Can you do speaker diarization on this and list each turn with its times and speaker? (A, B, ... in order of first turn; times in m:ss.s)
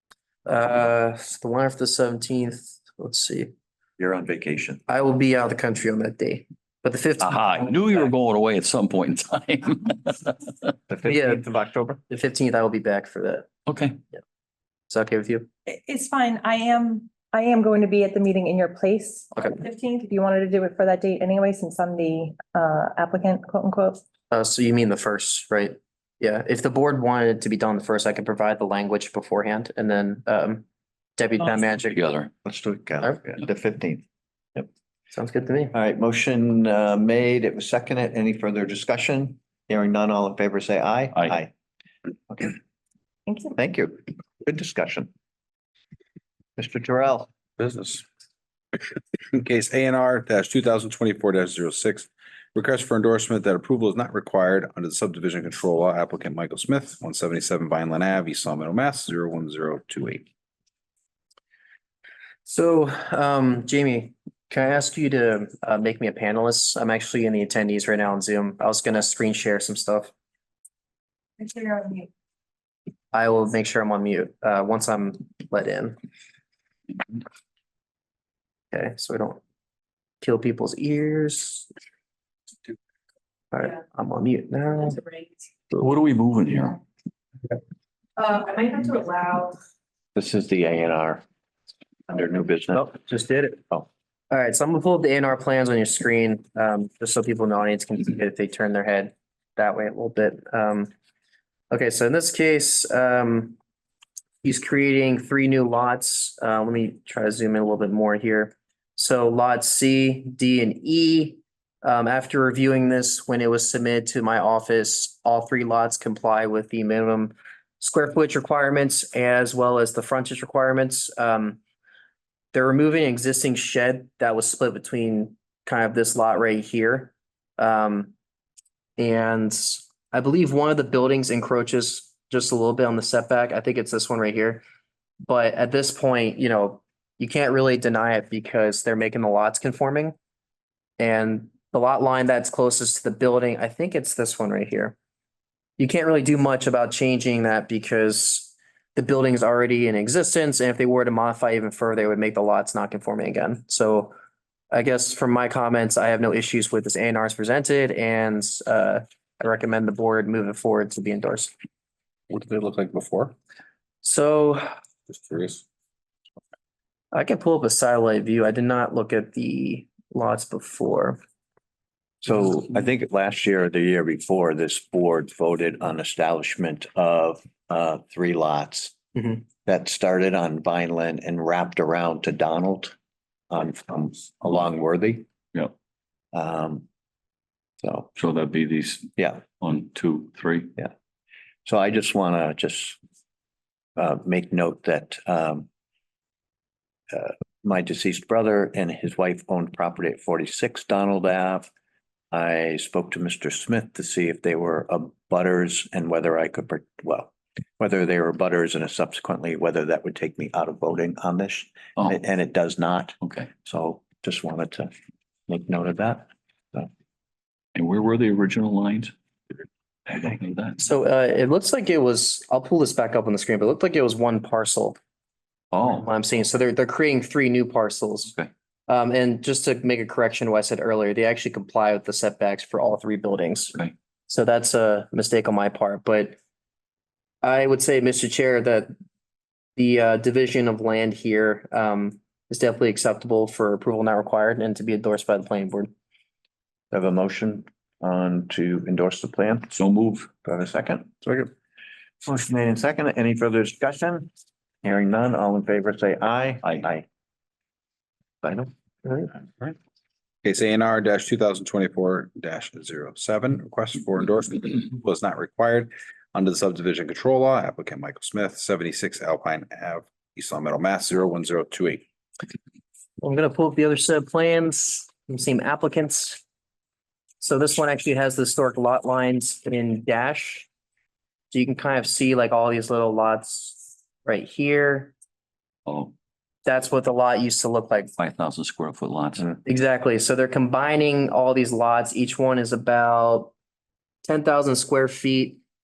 0:00.4-0:03.5 A
0:04.0-0:04.8 B
0:04.9-0:07.8 A
0:07.2-0:10.5 C
0:10.9-0:12.0 B
0:11.1-0:11.4 A
0:12.1-0:13.5 A
0:13.7-0:14.0 C
0:14.9-0:15.5 A
0:15.7-0:24.0 D
0:24.3-0:30.6 A
0:31.2-0:32.0 A
0:31.8-0:32.3 C
0:32.4-0:34.0 B
0:35.1-0:35.7 A
0:35.7-0:41.5 B
0:42.3-0:42.6 B
0:43.6-0:45.1 B
0:46.6-0:47.3 B
0:47.6-0:48.0 E
0:48.8-1:00.3 E
1:02.4-1:10.1 A
1:11.4-1:12.1 D
1:13.1-1:16.0 A
1:18.7-1:19.4 A
1:20.2-1:21.7 A
1:23.5-1:25.1 A
1:25.8-1:26.8 C
1:28.2-1:29.6 D
1:30.1-1:31.2 B
1:32.1-1:33.0 B
1:32.7-1:33.6 A
1:34.3-1:40.9 A
1:41.7-1:43.6 A
1:44.4-2:01.6 A
2:02.5-2:08.1 A
2:09.0-2:14.6 A
2:15.2-2:20.1 A
2:21.0-2:24.9 A
2:25.8-2:34.1 A
2:34.7-2:41.5 A
2:42.3-2:43.3 E
2:44.0-2:44.7 A
2:45.1-2:45.6 E
2:47.1-2:51.2 A
2:52.2-3:02.9 B
3:03.5-3:05.3 B
3:06.3-3:06.8 B
3:07.8-3:08.1 B
3:08.2-3:10.7 C
3:09.2-3:09.4 B
3:11.6-3:13.0 B
3:14.0-3:15.7 B
3:17.1-3:21.7 B
3:22.3-3:34.9 B
3:33.2-3:33.5 C
3:35.5-3:36.9 B
3:37.7-3:39.1 C
3:40.1-3:40.8 C
3:40.8-3:45.0 A
3:45.7-3:46.1 C
3:45.9-3:48.3 A
3:48.9-3:56.4 A
3:57.4-3:58.9 A
3:59.8-4:05.9 A
4:06.9-4:09.7 B
4:09.7-4:10.3 C
4:10.4-4:11.3 B
4:12.2-4:14.3 B
4:14.8-4:17.0 B
4:18.4-4:19.7 B
4:20.4-4:32.0 E
4:33.2-4:36.4 A
4:37.4-4:40.7 A
4:41.5-4:45.1 A
4:45.8-4:46.1 C
4:46.6-4:48.1 A
4:48.2-4:49.5 C
4:49.6-4:53.5 A
4:54.2-4:55.6 A